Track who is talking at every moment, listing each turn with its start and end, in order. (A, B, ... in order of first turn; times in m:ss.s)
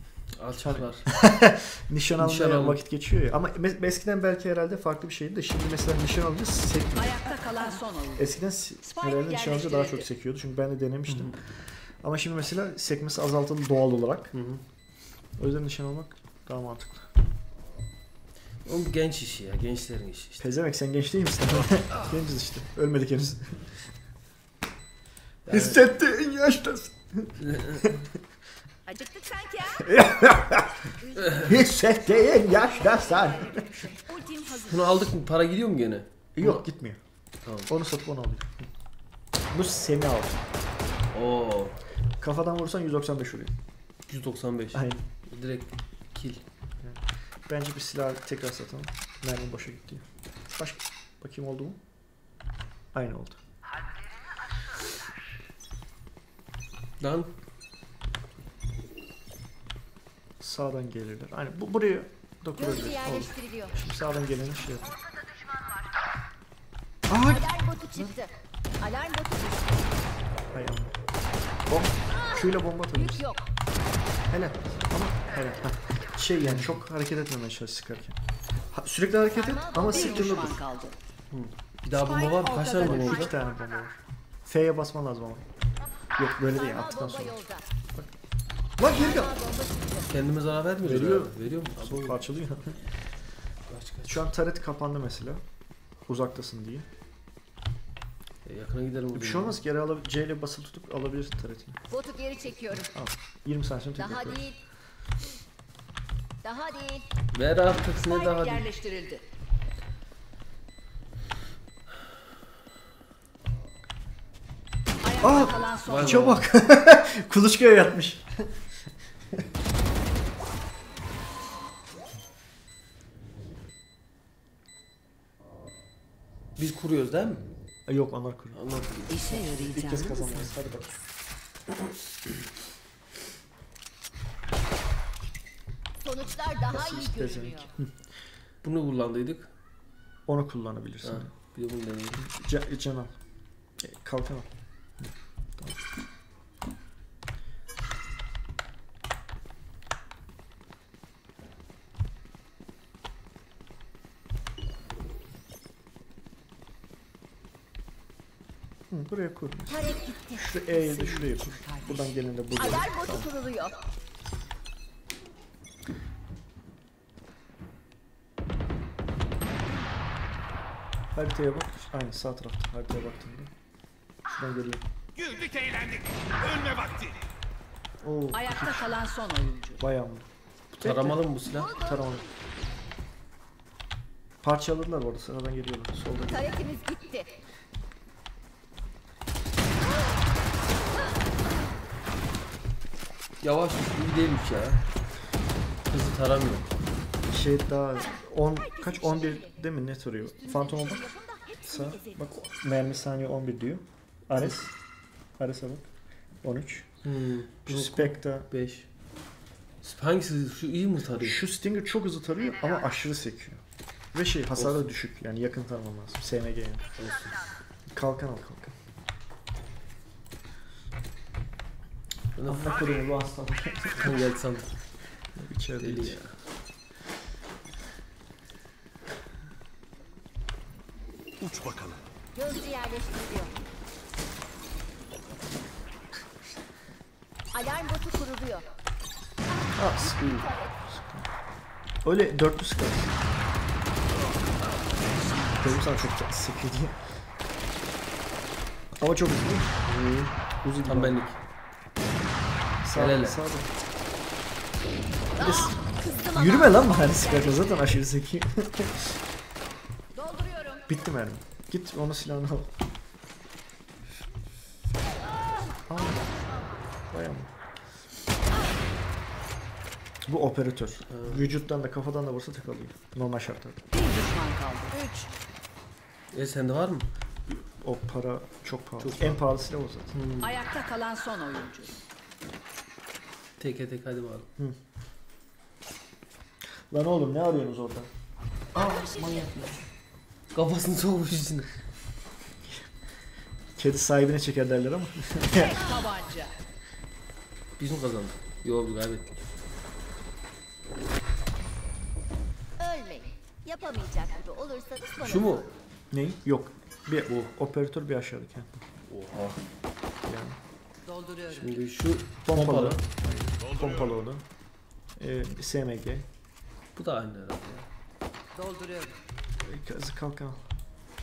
0:00.4-0:01.1 A
0:00.6-0:07.3 B
0:02.2-0:02.8 A
0:07.0-0:08.3 C
0:08.2-0:14.3 B
0:08.8-0:10.1 C
0:11.1-0:11.3 A
0:14.3-0:14.6 A
0:15.4-0:17.1 B
0:18.6-0:20.4 A
0:20.4-0:23.9 B
0:25.4-0:25.8 A
0:25.5-0:28.0 B
0:27.4-0:28.0 A
0:28.9-0:29.9 D
0:29.8-0:30.8 B
0:31.0-0:31.7 D
0:31.2-0:31.5 A
0:31.4-0:33.9 B
0:33.5-0:34.9 D
0:34.6-0:36.6 A
0:36.4-0:37.0 B
0:37.4-0:37.7 A
0:37.7-0:38.6 B
0:39.5-0:40.4 B
0:41.1-0:41.7 A
0:42.2-0:43.5 B
0:44.1-0:46.4 A
0:44.7-0:45.0 B
0:46.8-0:51.8 B
0:52.9-0:53.4 B
0:57.0-0:57.3 A
1:00.4-1:04.9 B
1:02.6-1:03.8 D
1:07.1-1:08.1 B
1:07.2-1:09.9 D
1:10.5-1:11.0 B
1:11.7-1:13.2 B
1:12.9-1:13.4 D
1:14.3-1:18.2 B
1:16.4-1:16.8 A
1:18.7-1:20.6 B
1:19.3-1:20.6 D
1:19.8-1:21.0 C
1:21.3-1:23.3 A
1:21.9-1:23.3 C
1:22.8-1:25.5 B
1:26.2-1:27.4 B
1:26.5-1:27.6 D
1:28.8-1:29.4 B
1:28.8-1:30.1 D
1:30.1-1:32.2 A
1:30.8-1:32.8 B
1:33.7-1:34.2 A
1:34.1-1:35.4 B
1:36.1-1:36.9 B
1:38.4-1:39.6 A
1:39.1-1:41.8 B
1:41.9-1:42.9 D
1:42.7-1:44.4 B
1:44.0-1:44.6 D
1:46.4-1:47.0 D
1:47.3-1:48.7 A
1:48.0-1:49.2 C
1:55.0-1:56.3 C
1:55.2-1:58.7 B
1:55.8-1:56.5 A
2:06.6-2:07.4 A
2:07.9-2:08.6 B
2:08.5-2:09.6 A
2:09.1-2:10.2 C
2:09.3-2:11.0 B
2:16.0-2:17.7 D
2:16.7-2:17.9 B
2:18.6-2:19.4 A
2:20.3-2:21.3 B
2:21.0-2:22.2 A
2:22.2-2:23.1 B
2:23.8-2:24.5 B
2:25.0-2:25.8 B
2:38.9-2:43.3 B
2:39.7-2:41.4 D
2:42.6-2:43.8 D
2:51.1-2:53.5 B
2:54.3-2:54.8 B
2:55.2-2:57.2 E
2:58.0-2:58.9 B
2:58.3-2:59.8 C
2:59.8-3:00.3 B
3:00.7-3:01.7 A
3:00.8-3:02.3 B
3:01.5-3:02.2 D
3:04.4-3:06.5 B
3:06.3-3:07.3 D
3:13.4-3:14.8 A
3:15.9-3:16.7 A
3:17.3-3:21.1 B
3:18.6-3:19.6 D
3:20.3-3:22.2 D
3:21.6-3:24.7 B
3:25.4-3:25.9 B
3:26.4-3:26.9 B
3:27.0-3:28.9 A
3:27.6-3:28.5 B
3:29.8-3:31.4 A
3:31.2-3:36.9 B
3:34.6-3:34.8 A
3:37.0-3:37.4 A
3:37.9-3:38.8 B
3:42.4-3:42.8 A
3:42.4-3:44.2 B
3:44.0-3:44.7 A
3:45.3-3:46.2 B
3:45.8-3:46.3 A
3:51.4-3:52.0 E
3:52.3-3:53.5 D
3:57.5-3:58.7 D
3:59.6-4:00.7 D
3:59.7-4:01.3 B
4:02.0-4:03.2 B
4:05.4-4:07.0 B
4:09.0-4:09.8 B
4:09.8-4:11.4 A
4:10.6-4:11.2 B
4:12.8-4:13.7 B
4:12.9-4:13.4 A
4:15.4-4:17.8 D
4:15.4-4:19.2 B
4:20.1-4:20.8 D
4:20.9-4:22.7 B
4:25.9-4:26.4 B
4:27.1-4:27.5 B
4:30.2-4:33.8 B
4:31.1-4:31.5 A
4:33.9-4:35.3 C
4:36.3-4:37.0 A
4:37.5-4:40.1 B
4:39.0-4:39.4 A
4:40.1-4:40.5 A
4:40.4-4:41.9 C
4:43.6-4:44.5 A
4:46.9-4:48.1 B
4:48.7-4:49.8 B
4:48.8-4:49.5 D
4:50.5-4:51.7 A
4:53.8-4:55.8 B
4:55.5-4:56.6 C
4:57.8-4:59.3 A
5:02.8-5:05.7 D
5:05.2-5:05.6 A
5:06.1-5:08.8 B
5:09.1-5:09.6 A
5:10.2-5:10.6 B
5:11.0-5:11.8 C
5:11.5-5:13.0 A
5:12.4-5:14.4 B
5:13.7-5:14.0 E
5:15.2-5:16.3 B
5:17.0-5:17.8 A
5:18.5-5:19.2 C
5:19.6-5:20.6 B